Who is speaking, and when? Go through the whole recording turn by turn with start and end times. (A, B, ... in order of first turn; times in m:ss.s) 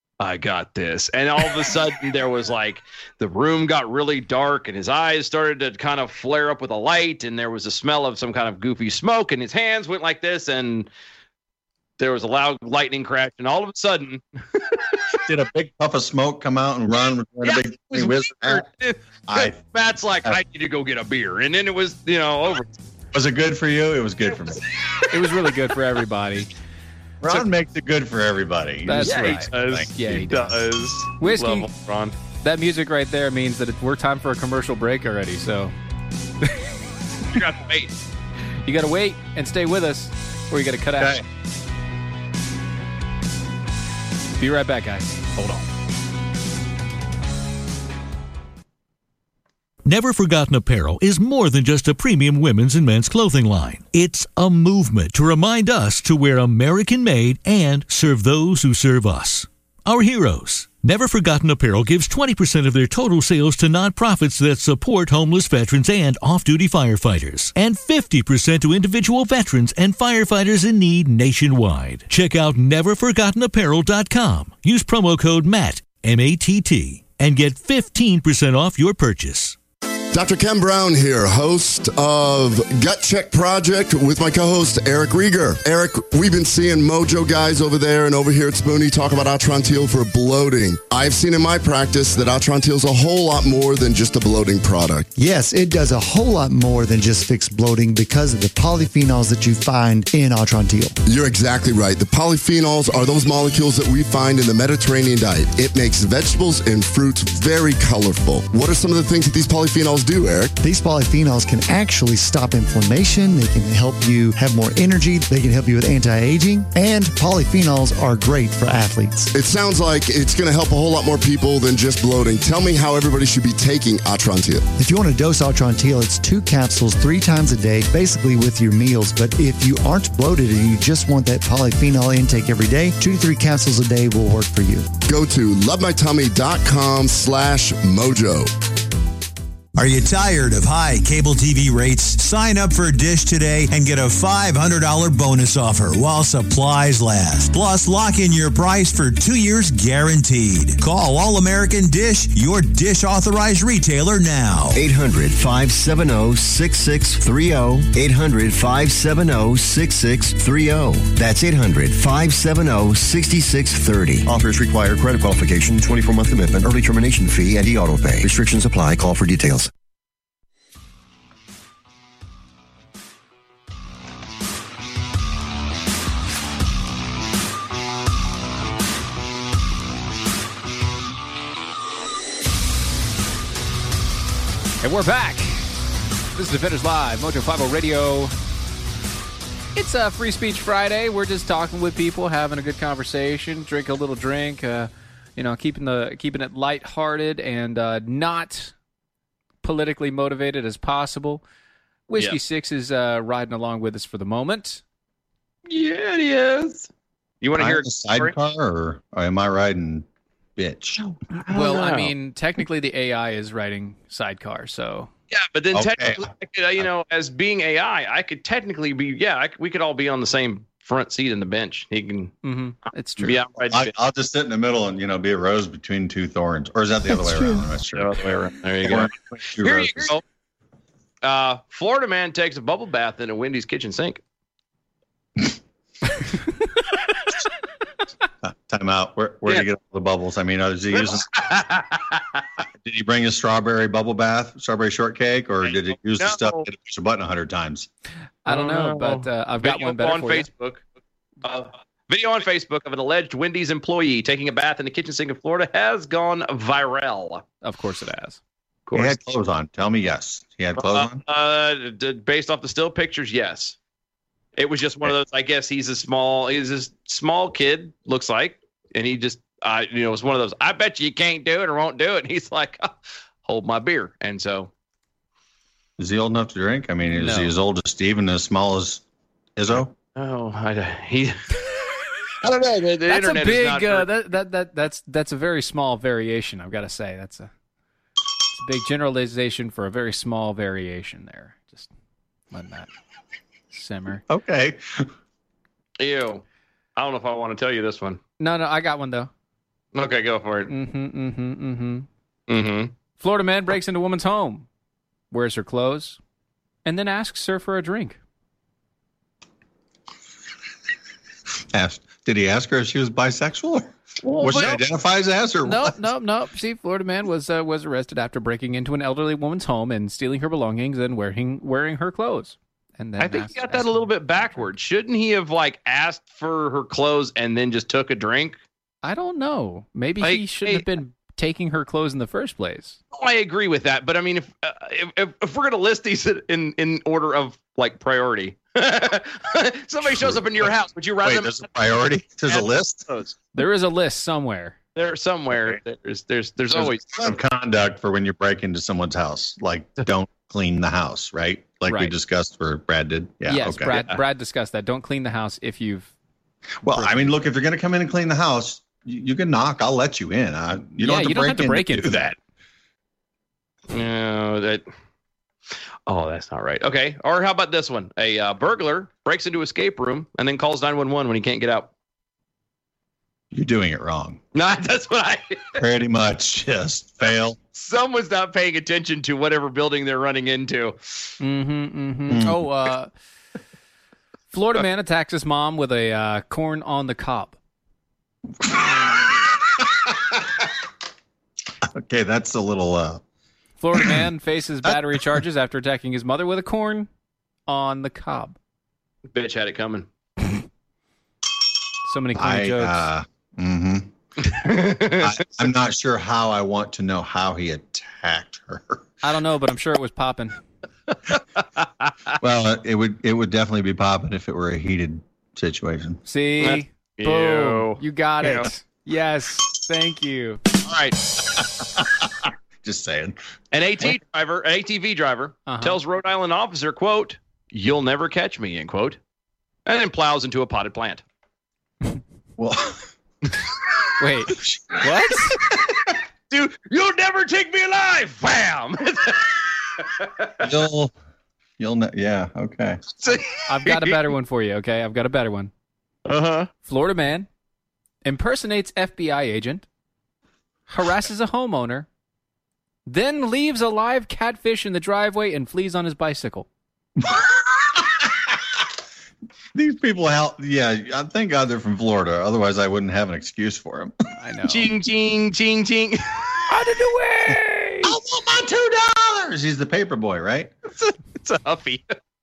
0:00.2-0:10.9 A
0:12.0-0:14.2 A
0:15.2-0:18.6 B
0:17.4-0:22.7 A
0:19.3-0:19.6 B
0:23.1-0:24.6 B
0:25.1-0:26.5 C
0:27.2-0:29.9 B
0:28.8-0:30.6 C
0:29.0-0:32.1 A
0:31.2-0:31.7 C
0:32.4-0:35.7 C
0:37.3-0:37.9 A
0:38.6-0:41.2 C
0:41.0-0:41.2 B
0:44.4-0:45.6 C
0:49.8-1:19.6 D
1:20.1-1:35.1 E
1:35.2-1:40.9 F
1:41.0-1:50.5 E
1:50.6-1:59.3 F
1:59.3-2:04.7 E
2:04.8-2:14.9 F
2:15.0-2:18.5 E
2:19.8-2:34.8 G
2:34.7-2:49.7 H
3:04.8-3:05.7 C
3:06.3-3:08.3 C
3:09.7-3:18.7 C
3:19.6-3:21.4 C
3:22.1-3:24.8 C
3:25.7-3:26.9 A
3:27.4-3:28.4 A
3:27.6-3:30.0 B
3:30.6-3:31.0 B
3:31.0-3:32.1 A
3:31.5-3:35.1 C
3:35.3-3:42.3 A
3:35.7-3:36.9 B
3:42.4-3:43.4 C
3:43.2-3:43.9 A
3:43.6-3:48.2 B
3:47.9-3:50.2 A
3:48.8-3:50.2 B
3:51.2-3:54.2 A
3:58.4-4:01.3 B
4:00.9-4:02.4 A
4:02.8-4:07.9 B
4:05.6-4:06.7 A
4:08.4-4:10.5 C
4:08.4-4:10.8 A
4:11.4-4:17.4 A
4:17.6-4:18.4 C
4:18.9-4:19.2 A
4:18.9-4:21.2 B
4:20.8-4:23.8 A
4:24.6-4:32.9 A
4:33.4-4:34.7 A
4:36.0-4:39.0 B
4:37.1-4:37.5 C
4:39.6-4:39.9 B
4:40.2-4:41.4 A
4:42.4-4:44.1 A
4:43.1-4:47.5 C
4:48.5-4:51.9 C
4:52.5-4:52.9 C
4:53.7-4:54.2 C
4:54.3-4:55.1 B
4:56.0-4:56.4 A
4:57.0-4:58.2 A
4:58.4-4:59.3 C
4:59.9-5:00.7 A
5:00.7-5:02.1 C
5:02.5-5:02.9 A
5:03.2-5:04.6 C
5:05.3-5:06.2 C
5:06.8-5:08.2 C
5:11.7-5:16.0 B
5:14.2-5:14.8 A
5:15.6-5:24.6 C
5:23.2-5:28.6 A
5:29.0-5:33.0 C
5:30.2-5:30.9 A
5:33.1-5:43.3 A
5:40.0-5:43.1 B
5:43.6-5:44.8 C
5:45.0-5:47.4 A
5:46.7-5:54.0 B
5:51.9-5:52.1 C
5:53.4-5:56.1 C
5:56.8-6:02.4 B
5:56.9-5:57.3 C
6:01.0-6:02.3 C
6:03.9-6:04.8 A
6:06.1-6:11.9 A
6:13.5-6:14.4 B
6:14.5-6:15.8 A
6:15.8-6:17.6 B
6:17.7-6:21.0 A
6:21.4-6:23.1 C
6:22.3-6:22.6 B
6:24.5-6:27.6 C
6:28.6-6:29.3 B
6:31.9-6:33.2 B
6:33.8-6:37.1 C
6:34.8-6:35.4 B
6:37.7-6:38.6 C
6:39.3-6:40.1 A
6:42.1-6:43.1 C
6:42.4-6:44.1 B
6:44.4-6:45.7 A
6:44.9-6:49.0 B
6:49.2-6:50.6 C
6:52.4-6:56.2 B
6:56.2-7:00.6 C
6:56.6-6:58.7 A
7:00.8-7:01.2 A
7:02.8-7:03.4 B
7:03.7-7:09.2 A
7:05.7-7:06.0 C
7:09.8-7:11.2 A
7:12.6-7:13.0 B
7:14.2-7:15.6 C
7:16.5-7:20.5 A
7:20.6-7:21.1 B
7:21.8-7:23.4 B
7:23.2-7:24.2 A
7:23.7-7:25.7 C
7:26.2-7:26.7 A
7:26.8-7:27.5 C
7:28.2-7:29.8 C
7:30.9-7:32.1 C
7:33.1-7:36.7 C
7:37.2-7:38.2 B
7:39.7-7:44.1 B
7:44.4-7:44.9 C
7:44.7-7:46.4 A
7:46.7-7:48.1 C
7:48.0-7:50.7 B
7:50.9-7:52.0 A